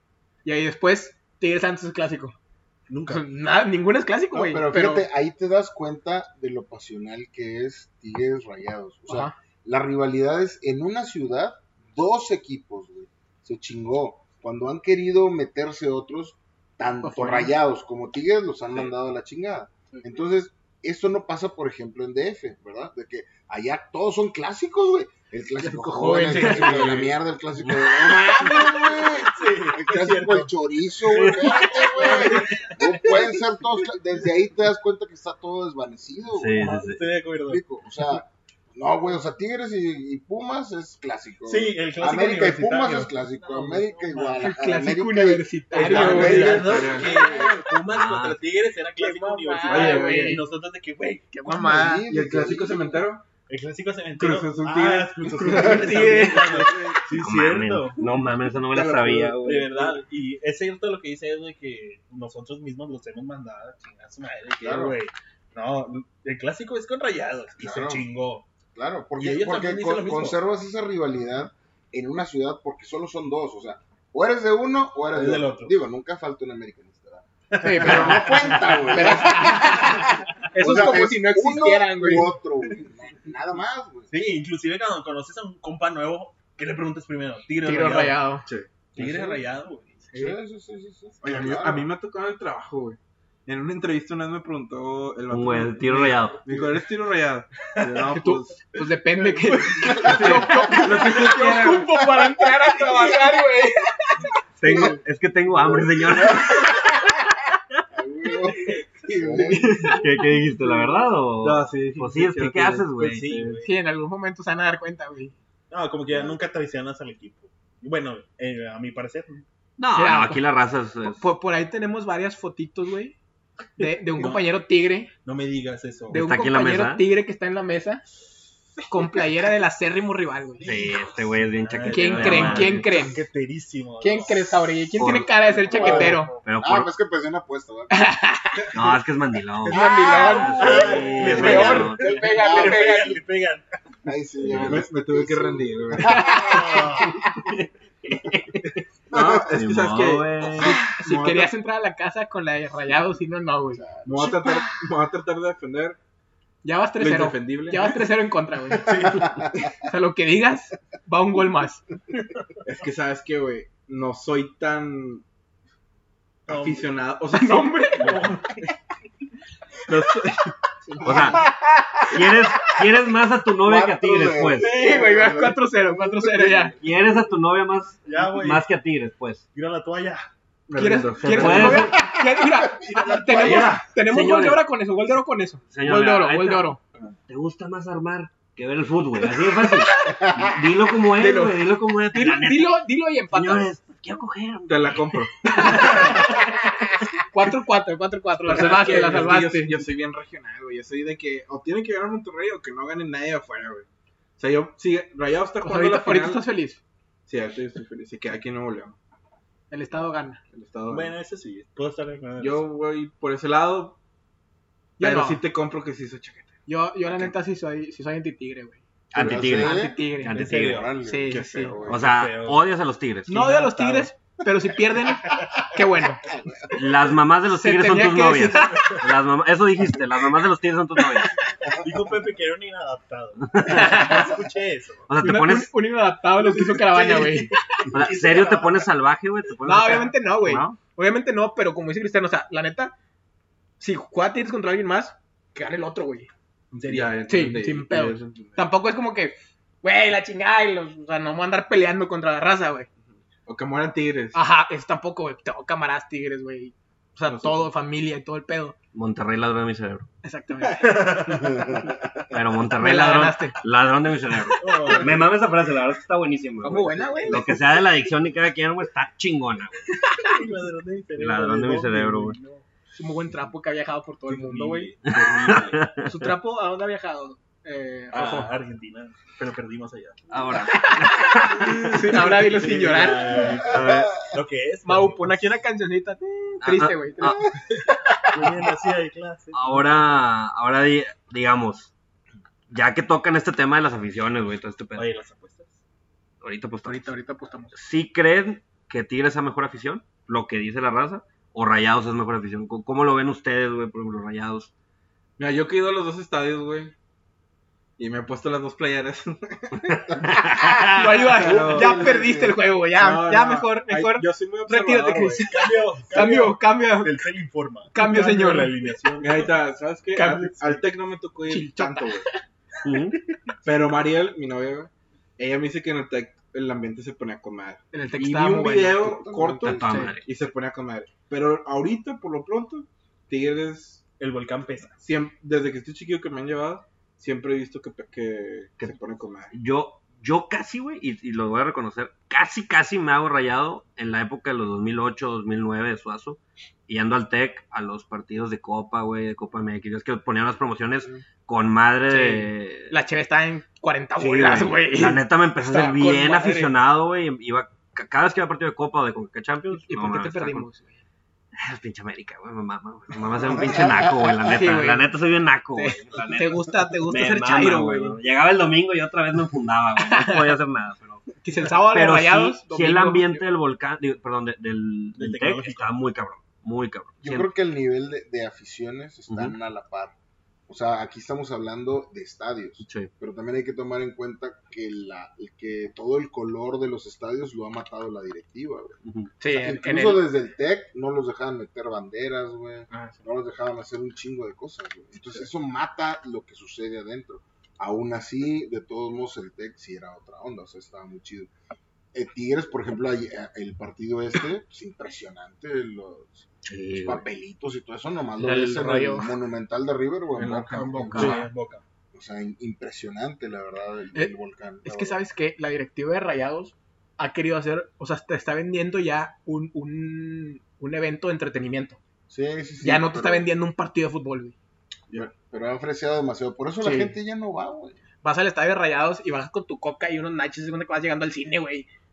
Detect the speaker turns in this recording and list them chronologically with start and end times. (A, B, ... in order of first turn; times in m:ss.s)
0:00.4-0:02.4 A
0:02.9-0:03.2 B
0:03.1-0:05.1 A
0:04.3-0:36.8 C
0:09.1-0:09.4 A
0:17.0-0:17.5 A
0:25.6-0:27.1 A
0:26.2-0:27.1 B
0:28.5-0:33.4 B
0:32.0-0:32.5 A
0:36.3-0:37.0 D
0:36.5-0:37.6 B
0:37.4-0:47.3 C
0:41.4-0:44.7 B
0:44.4-0:46.5 A
0:45.7-0:47.1 E
0:45.7-0:51.3 B
0:47.1-0:47.5 A
0:47.9-0:48.4 D
0:49.0-0:50.4 A
0:49.6-0:50.4 E
0:51.3-0:52.1 A
0:51.4-0:53.0 C
0:52.0-0:53.2 E
0:53.5-0:58.1 B
0:54.2-0:57.0 E
0:55.4-0:56.9 A
0:57.1-0:59.7 D
0:58.7-0:59.9 E
0:59.4-1:08.5 B
1:04.6-1:05.0 C
1:07.6-1:08.1 C
1:08.7-1:24.1 C
1:09.2-1:10.4 B
1:15.1-1:15.8 B
1:17.5-1:18.9 B
1:17.6-1:22.3 A
1:18.6-1:18.8 D
1:24.1-1:28.2 B
1:27.6-1:28.4 A
1:28.4-1:29.4 E
1:28.9-1:30.0 B
1:30.1-1:30.4 A
1:30.1-1:31.9 C
1:31.2-1:43.4 E
1:35.3-1:36.4 D
1:37.7-1:38.1 B
1:38.1-1:44.3 A
1:40.0-1:40.4 C
1:44.6-1:46.9 D
1:47.9-1:50.0 C
1:49.2-1:49.9 E
1:49.7-1:49.9 A
1:49.8-1:53.5 D
1:50.6-1:53.6 E
1:53.0-1:53.7 B
1:53.6-1:55.3 A
1:55.7-1:59.4 B
1:59.8-2:01.2 D
1:59.9-2:00.4 A
2:01.0-2:03.2 A
2:03.8-2:05.1 A
2:04.1-2:04.5 B
2:05.2-2:06.2 B
2:06.1-2:07.0 D
2:06.1-2:08.0 A
2:08.9-2:10.7 A
2:10.6-2:11.0 B
2:10.6-2:12.9 D
2:11.5-2:14.6 B
2:11.8-2:13.2 A
2:14.0-2:16.3 A
2:15.0-2:16.9 D
2:15.7-2:18.0 C
2:15.7-2:16.4 B
2:17.9-2:18.7 A
2:18.7-2:22.2 D
2:19.7-2:22.9 C
2:19.7-2:23.2 A
2:20.4-2:23.6 B
2:24.0-2:27.1 C
2:24.4-2:24.7 B
2:24.5-2:26.4 E
2:26.0-2:26.8 A
2:26.3-2:27.2 B
2:28.0-2:28.8 D
2:29.1-2:31.5 E
2:29.1-2:29.4 C
2:29.5-2:30.9 D
2:30.9-2:33.8 A
2:33.8-2:34.3 C
2:34.0-2:36.0 E
2:36.6-2:38.9 A
2:37.0-2:38.0 E
2:38.8-2:39.3 B
2:39.0-2:39.7 C
2:39.8-2:41.8 A
2:42.6-2:45.2 E
2:46.5-2:46.9 B
2:46.5-2:48.3 E
2:47.3-2:48.2 A
2:48.0-2:48.6 B
2:49.9-2:51.0 E
2:50.9-2:52.1 A
2:51.0-2:51.4 D
2:52.1-2:54.7 D
2:53.6-2:55.6 C
2:54.6-2:56.7 A
2:54.6-2:55.4 E
2:56.8-2:59.4 D
2:58.0-2:58.6 B
2:59.5-3:00.3 B
3:00.7-3:01.8 E
3:00.7-3:06.8 A
3:01.2-3:02.0 D
3:01.4-3:01.8 B
3:01.9-3:03.8 C
3:03.3-3:03.8 B
3:03.4-3:04.6 D
3:05.7-3:06.7 D
3:07.3-3:15.8 D
3:09.6-3:10.2 A
3:10.0-3:10.5 C
3:11.1-3:13.7 A
3:14.6-3:16.4 E
3:15.5-3:19.8 A
3:18.4-3:23.8 E
3:24.4-3:26.4 E
3:25.6-3:26.8 A
3:27.2-3:29.0 E
3:29.7-3:30.4 A
3:30.5-3:31.1 E
3:30.9-3:32.6 B
3:32.4-3:34.0 E
3:35.0-3:35.4 A
3:35.0-3:36.5 E
3:36.7-3:38.8 A
3:39.1-3:40.8 D
3:39.1-3:42.0 C
3:39.5-3:40.3 A
3:40.3-3:40.9 B
3:41.0-3:41.8 A
3:41.3-3:41.9 E
3:41.9-3:42.6 B
3:41.9-3:43.4 D
3:43.3-3:46.2 A
3:43.3-3:44.1 B
3:45.3-3:45.6 B
3:46.3-3:46.7 C
3:46.7-3:51.5 D
3:47.5-3:49.0 A
3:48.6-3:49.0 B
3:51.7-3:55.1 B
3:53.5-3:54.2 D
3:53.6-3:54.3 A
3:55.1-3:55.7 D
3:55.2-3:57.9 A
3:56.5-3:58.9 B
3:57.9-4:00.8 D
3:59.6-4:02.9 A
4:03.8-4:06.3 A
4:06.7-4:08.7 E
4:06.8-4:12.9 A
4:13.1-4:14.4 E
4:14.3-4:18.7 A
4:17.3-4:17.7 E
4:18.9-4:20.1 D
4:20.2-4:21.2 A
4:20.8-4:21.6 B
4:21.4-4:22.0 C
4:22.3-4:30.3 D
4:22.8-4:23.6 A
4:24.6-4:25.3 B
4:26.6-4:27.5 A
4:30.2-4:32.6 B
4:31.2-4:32.4 D
4:32.9-4:34.9 A
4:34.3-4:36.0 B
4:35.1-4:36.1 D
4:36.0-4:38.5 A
4:38.1-4:40.4 B
4:40.3-4:42.3 D
4:40.5-4:43.7 A
4:41.9-4:45.5 B
4:43.6-4:44.1 D
4:44.8-4:48.5 A
4:46.6-4:47.5 D
4:47.7-4:49.8 B
4:49.5-4:51.9 D
4:52.7-4:55.1 D
4:55.0-4:55.8 B
4:56.4-4:57.1 D
4:56.8-4:57.7 A
4:57.7-5:04.7 D
5:05.4-5:06.9 E
5:08.0-5:10.1 E
5:10.1-5:10.7 C
5:10.2-5:11.3 D
5:10.9-5:17.2 A
5:11.4-5:12.6 C
5:11.4-5:12.2 E
5:13.0-5:15.6 E
5:15.4-5:19.5 B
5:17.9-5:18.7 A
5:19.2-5:22.3 E
5:20.1-5:20.6 A
5:21.5-5:22.4 A
5:22.8-5:23.2 D
5:23.6-5:34.0 E
5:27.9-5:29.1 A
5:28.9-5:30.0 C
5:29.6-5:30.3 D
5:29.8-5:30.1 A
5:34.2-5:35.0 B
5:35.0-5:39.5 E
5:39.5-5:52.9 D
5:52.1-5:56.7 A
5:54.2-6:00.6 D
5:59.7-6:01.0 A
6:01.6-6:11.2 D
6:03.6-6:05.1 A
6:05.7-6:08.2 A
6:10.0-6:10.6 A
6:11.4-6:13.4 A
6:11.8-6:17.5 D
6:15.2-6:15.9 B
6:17.2-6:20.1 C
6:19.3-6:19.5 D
6:20.7-6:41.5 C
6:22.8-6:23.1 D
6:29.0-6:29.3 D
6:29.4-6:30.2 A
6:32.9-6:33.2 E
6:42.1-6:51.4 C
6:46.6-6:47.2 D
6:48.4-6:49.4 A
6:50.4-6:51.3 E
6:51.0-6:51.4 A
6:51.0-6:51.8 B
6:51.1-6:51.4 D
6:52.1-6:55.2 C
6:54.1-7:02.0 A
7:02.3-7:03.5 C
7:02.8-7:04.6 A
7:05.1-7:08.0 C
7:06.8-7:07.2 A
7:08.2-7:11.9 A